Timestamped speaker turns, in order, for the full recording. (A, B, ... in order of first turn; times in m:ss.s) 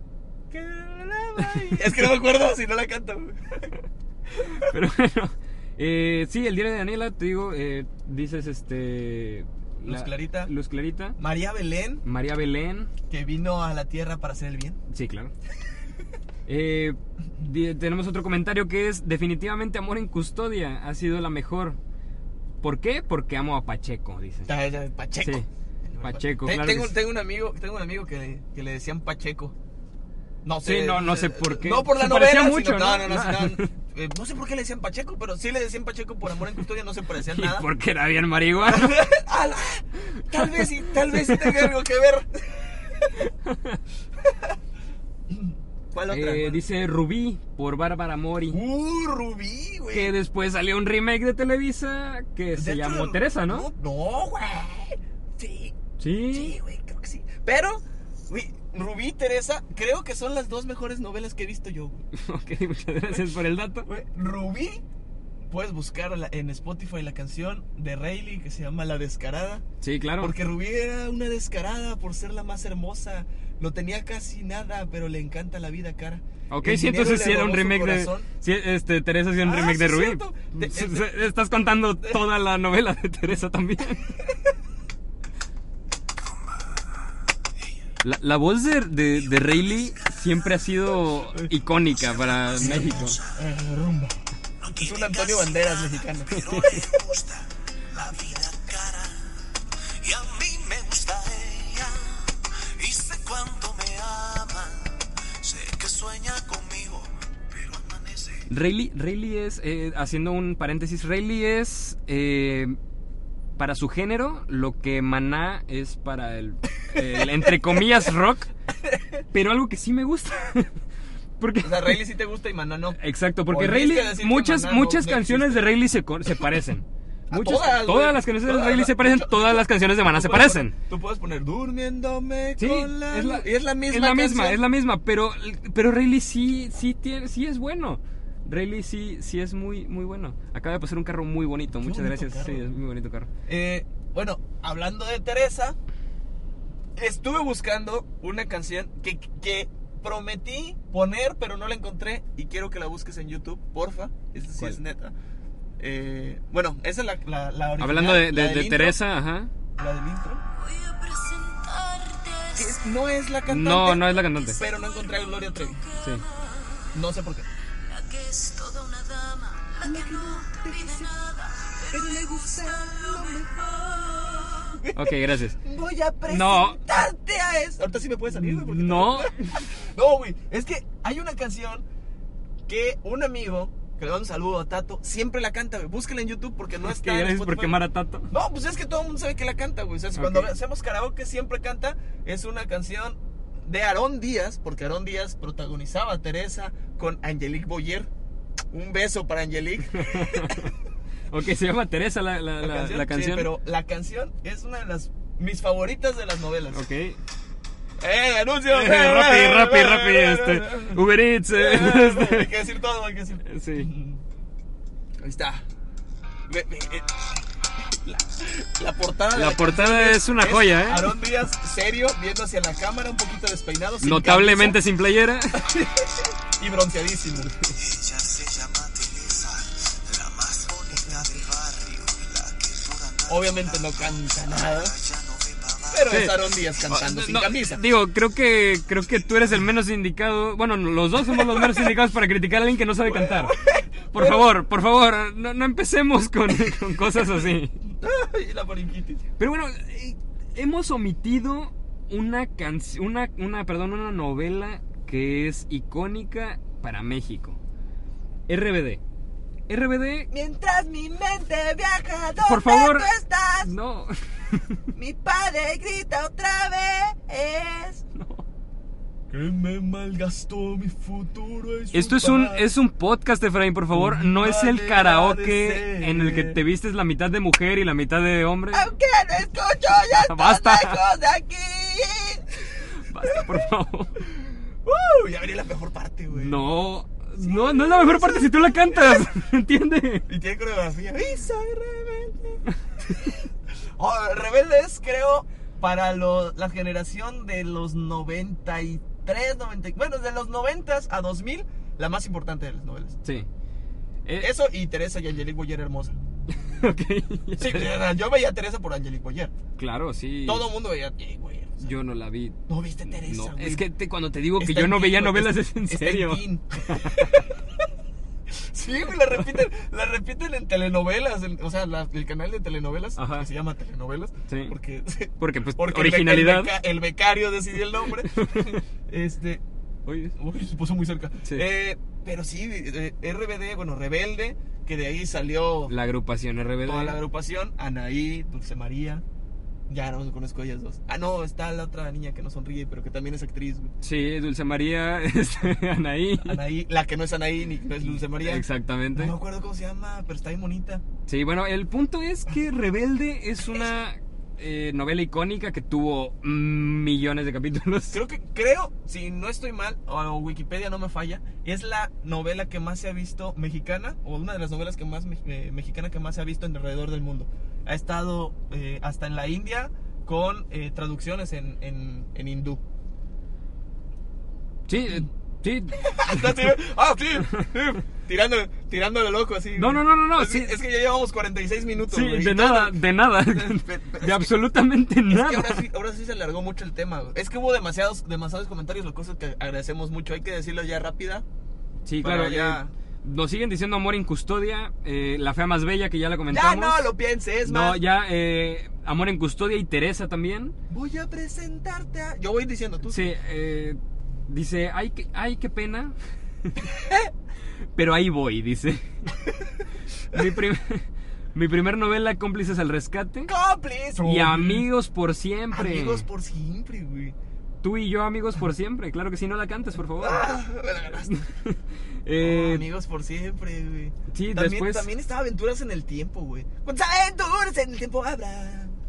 0:00.5-0:03.8 A
0:01.4-0:01.8 B
0:04.4-0:04.7 A
0:04.5-0:11.2 B
0:09.8-0:10.5 A
0:11.2-0:12.0 A
0:12.0-0:12.9 B
0:13.1-0:14.8 A
0:14.9-0:15.3 B
0:16.5-0:21.8 B
0:22.6-0:24.5 B
0:24.4-0:29.5 A
0:25.2-0:25.5 B
0:26.0-0:26.9 B
0:30.4-0:37.7 A
0:30.6-0:33.7 B
0:37.3-0:39.0 B
0:38.6-0:43.2 A
0:40.4-0:41.7 B
0:43.2-0:43.8 B
0:44.2-0:44.6 A
0:45.3-0:46.6 A
0:46.1-0:48.6 B
0:48.5-0:50.1 A
0:49.9-0:53.7 B
0:52.6-1:02.0 A
0:56.0-0:56.6 B
1:02.1-1:03.9 B
1:03.9-1:04.8 A
1:05.5-1:09.6 A
1:09.8-1:10.3 B
1:10.2-1:18.3 A
1:16.5-1:24.1 B
1:19.4-1:21.1 A
1:22.0-1:22.3 A
1:24.2-1:24.5 A
1:28.0-1:33.2 B
1:29.2-1:30.6 C
1:31.8-1:33.4 C
1:32.6-1:37.0 A
1:34.6-1:39.3 C
1:36.3-1:36.8 B
1:40.0-1:48.4 C
1:48.5-1:52.8 B
1:53.6-1:58.5 B
1:57.0-1:57.8 A
1:58.8-1:59.2 A
1:59.3-2:00.8 B
2:01.4-2:02.0 B
2:01.6-2:05.7 A
2:03.0-2:10.7 B
2:07.3-2:14.6 A
2:12.6-2:23.3 B
2:21.8-2:22.7 A
2:23.5-2:25.8 A
2:27.0-2:35.1 A
2:35.8-2:39.0 A
2:37.8-2:39.5 B
2:39.8-2:40.4 A
2:40.5-2:42.9 D
2:42.6-2:45.8 A
2:43.4-2:44.6 B
2:44.5-2:46.9 D
2:46.0-2:46.2 B
2:46.9-2:47.5 A
2:47.8-2:54.8 D
2:49.8-2:51.1 A
2:51.9-2:53.5 A
2:54.6-3:01.8 A
2:54.9-2:55.6 B
2:56.3-2:56.8 B
2:58.3-2:59.6 B
3:02.7-3:07.8 A
3:06.8-3:08.3 B
3:08.3-3:18.1 A
3:10.1-3:10.5 B
3:18.7-3:20.7 A
3:19.9-3:20.7 B
3:21.3-3:23.5 B
3:22.6-3:26.8 A
3:26.7-3:27.2 B
3:28.0-3:34.2 A
3:28.7-3:32.5 B
3:33.4-3:33.9 B
3:35.2-3:35.6 A
3:36.5-3:37.2 A
3:37.9-3:44.8 A
3:39.3-3:41.1 B
3:44.0-3:45.7 B
3:45.5-3:47.6 A
3:47.7-3:56.3 C
3:51.0-3:51.4 A
3:53.3-3:54.9 A
3:55.9-3:57.8 A
3:56.1-4:03.6 B
4:01.3-4:01.9 A
4:03.0-4:04.5 A
4:04.1-4:07.8 B
4:07.9-4:09.2 A
4:09.4-4:17.6 B
4:18.5-4:19.0 B
4:19.7-4:20.3 B
4:20.3-4:23.7 A
4:22.4-4:24.8 B
4:24.9-4:28.0 A
4:28.1-4:28.4 B
4:29.3-4:32.6 A
4:31.9-4:38.9 B
4:33.9-4:36.6 A
4:38.7-4:43.5 A
4:40.2-4:41.0 B
4:43.0-4:44.2 B
4:44.2-4:46.6 A
4:46.3-4:50.3 B
4:47.4-4:49.3 A
4:50.3-5:03.2 A
5:04.2-5:04.5 B
5:04.4-5:06.2 A
5:06.6-5:07.9 B
5:07.6-5:09.5 A
5:09.8-5:10.7 B
5:10.4-5:11.9 A
5:11.8-5:12.6 B
5:12.7-5:13.8 A
5:13.1-5:17.5 B
5:14.6-5:17.7 A
5:18.5-5:29.6 A
5:23.2-5:23.5 B
5:24.5-5:24.7 B
5:25.4-5:26.7 B
5:28.2-5:28.8 B
5:30.0-5:30.4 B
5:30.4-5:35.9 A
5:35.9-5:37.2 B
5:36.8-5:39.2 A
5:39.9-5:43.9 A
5:44.0-5:46.6 B
5:46.4-5:51.0 A
5:48.0-5:49.3 B
5:51.3-5:58.2 B
5:58.1-6:12.8 A
6:14.9-6:16.7 B
6:16.0-6:24.6 A
6:19.8-6:20.8 B
6:22.1-6:25.8 B
6:25.3-6:31.4 A
6:32.0-6:37.0 B
6:32.2-6:32.9 A
6:36.5-6:38.0 A
6:37.6-6:40.7 B
6:40.9-6:43.3 A
6:43.1-6:46.1 B
6:46.9-6:47.3 A
6:48.0-6:49.3 B
6:50.3-6:53.5 B
6:53.5-6:54.9 A
6:54.2-6:56.3 B
6:55.7-6:57.3 A
6:57.8-7:00.5 B
7:00.2-7:01.3 A
7:01.2-7:02.9 B
7:02.4-7:09.0 A
7:04.3-7:05.1 B